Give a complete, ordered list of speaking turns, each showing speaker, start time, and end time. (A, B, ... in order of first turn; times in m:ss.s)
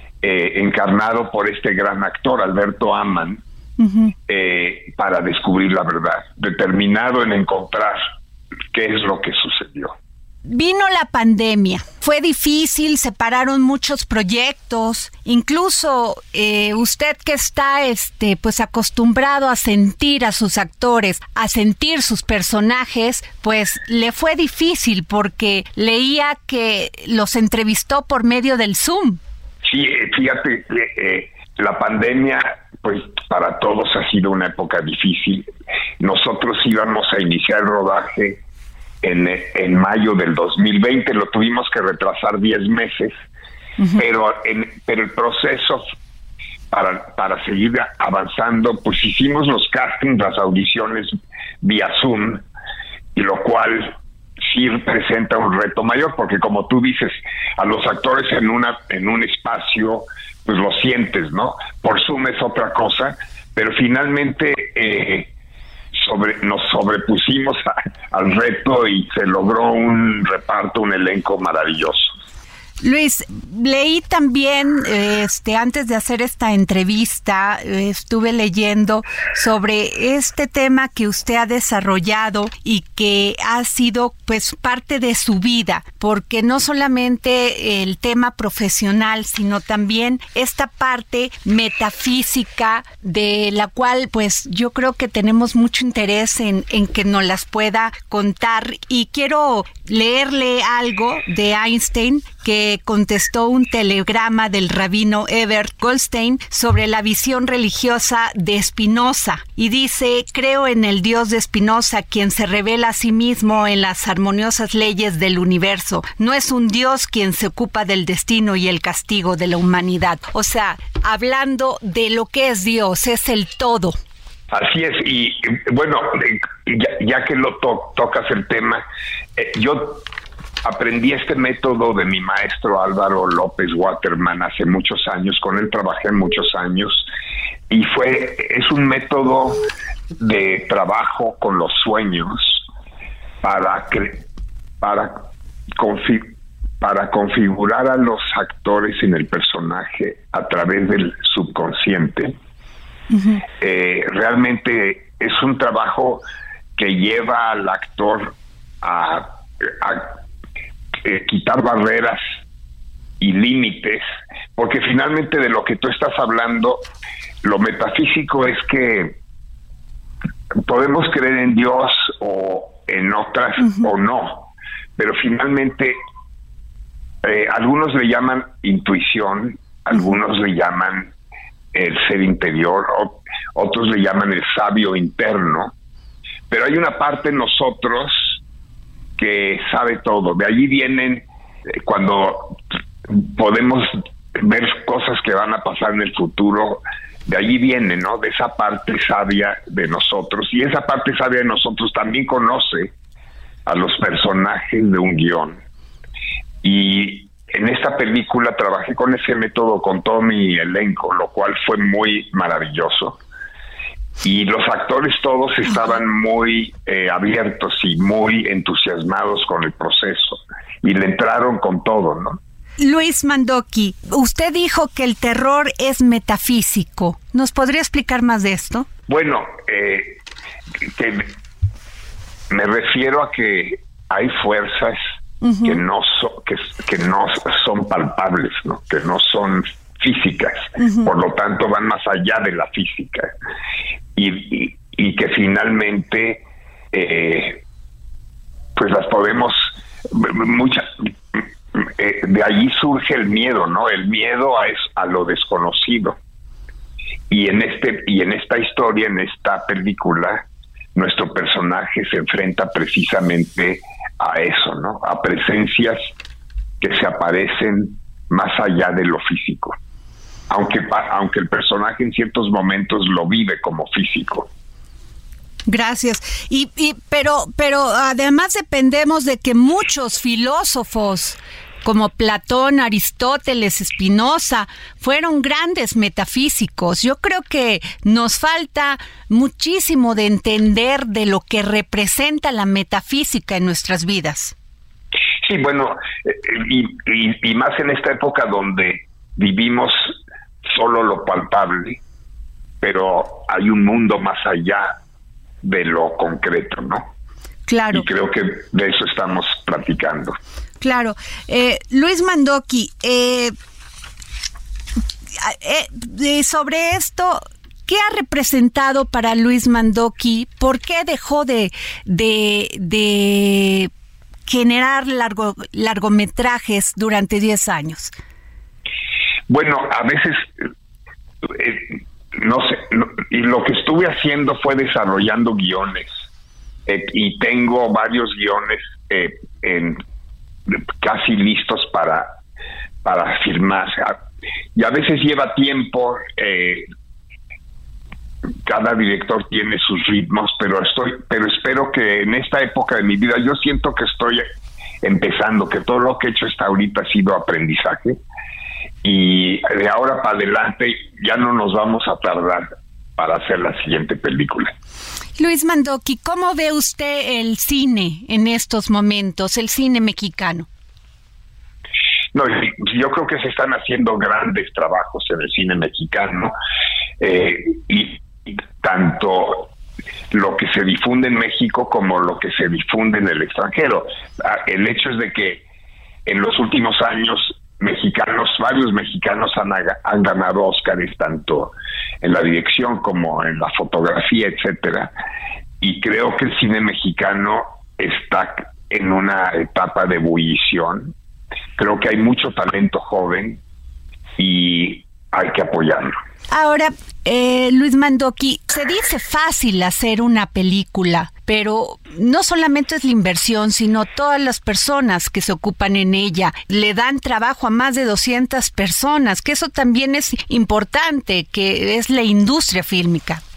0:00.2-0:03.4 A
0:03.8-0:04.1 B
0:04.3-0:08.0 A
0:08.7-0:10.0 A
0:10.4-0:29.2 B
0:29.6-0:35.5 A
0:36.0-0:38.4 A
0:39.0-0:43.2 A
0:44.0-0:45.8 A
0:46.7-0:52.4 A
0:53.1-1:05.3 A
1:05.9-1:12.1 A
1:12.8-2:04.0 B
2:04.5-2:08.8 A
2:09.4-2:10.1 A
2:10.6-2:17.1 A
2:17.7-2:19.6 A
2:20.2-2:22.6 A
2:23.4-2:24.2 A
2:24.8-2:25.2 A
2:25.8-2:32.4 A
2:33.1-2:33.4 B
2:33.6-2:36.2 A
2:36.8-2:40.2 A
2:41.0-2:42.2 A
2:43.2-2:44.0 A
2:44.6-2:46.8 A
2:47.4-2:49.2 A
2:50.6-2:56.0 A
2:57.2-3:01.1 A
3:01.7-3:05.7 A
3:06.5-3:08.4 A
3:09.2-3:22.9 A
3:23.6-3:25.6 A
3:26.6-3:33.2 A
3:34.2-3:42.4 A
3:42.8-3:48.9 B
3:49.1-3:50.2 A
3:50.8-3:51.4 A
3:52.5-3:55.0 A
3:55.4-3:55.8 B
3:55.6-4:03.3 A
4:00.8-4:01.1 B
4:04.2-4:07.6 A
4:08.8-4:16.2 A
4:17.3-4:26.1 A
4:26.8-4:29.8 A
4:30.5-4:34.5 A
4:35.7-4:54.5 B
4:55.4-5:02.0 A
5:02.8-5:05.0 A
5:05.6-5:07.1 A
5:07.7-5:08.0 B
5:07.9-5:10.4 A
5:10.8-5:13.5 B
5:15.4-5:23.9 B
5:24.5-5:28.1 B
5:29.5-5:30.6 A
5:31.4-5:36.1 A
5:36.9-5:40.0 A
5:40.7-5:42.4 A
5:43.0-5:44.2 A
5:44.8-5:46.9 A
5:48.6-5:54.5 A
5:55.0-5:58.2 A
5:59.0-6:04.7 A
6:05.4-6:10.7 B
6:12.3-6:16.5 A
6:17.2-6:19.7 A
6:20.3-6:25.6 A
6:26.2-6:35.1 A
6:35.8-6:41.1 A
6:41.8-6:43.6 A
6:44.4-6:46.2 A
6:46.5-7:03.4 B